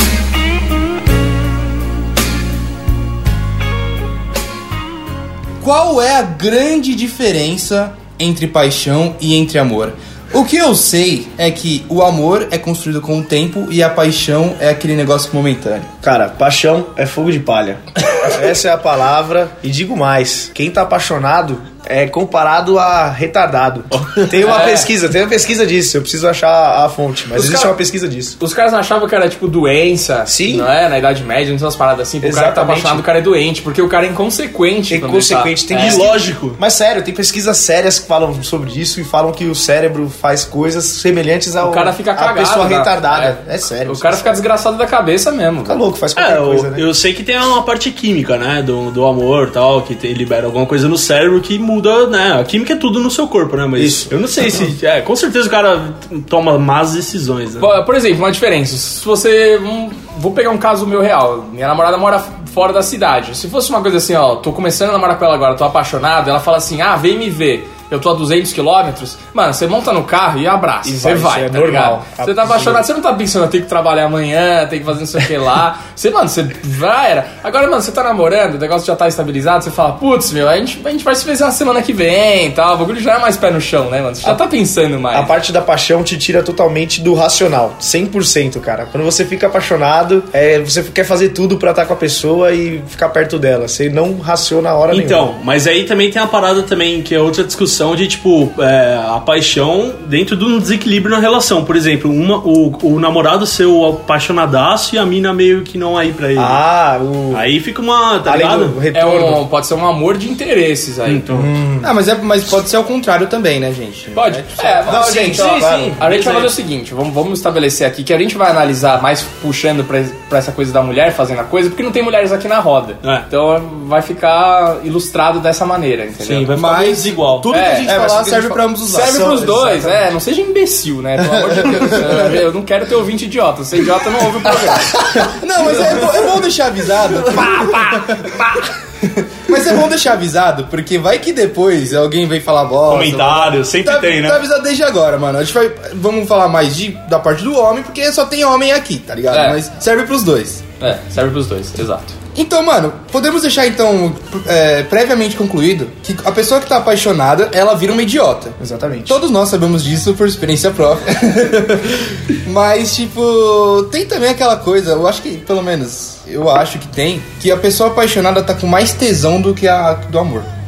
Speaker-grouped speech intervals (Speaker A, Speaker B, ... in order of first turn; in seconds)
Speaker A: 5.6-15.9, 111.8-115.2, 126.5-129.6, 135.1-138.3, 139.1-150.6, 152.3-158.6, 159.1-170.5
Speaker B: 16.0-28.4, 30.3-30.7, 32.2-33.0, 34.9-44.3, 45.6-46.9, 53.8-54.1, 70.8-72.8, 85.1-95.3, 106.3-107.5, 108.2-109.4, 111.3-111.9, 114.9-116.0, 127.8-130.0, 131.2-132.3, 158.6-159.2
Speaker C: 24.3-24.9, 27.3-27.7, 28.4-36.1, 41.6-45.8, 57.6-85.3, 108.9-111.3, 114.1-126.5, 127.5-127.9, 128.8-134.9, 137.3-138.7, 149.3-149.6, 150.8-152.2
Speaker D: 35.7-36.6, 46.1-57.8, 94.9-106.6, 107.3-108.8, 111.0-111.5, 115.7-116.5, 126.2-127.5, 142.9-144.4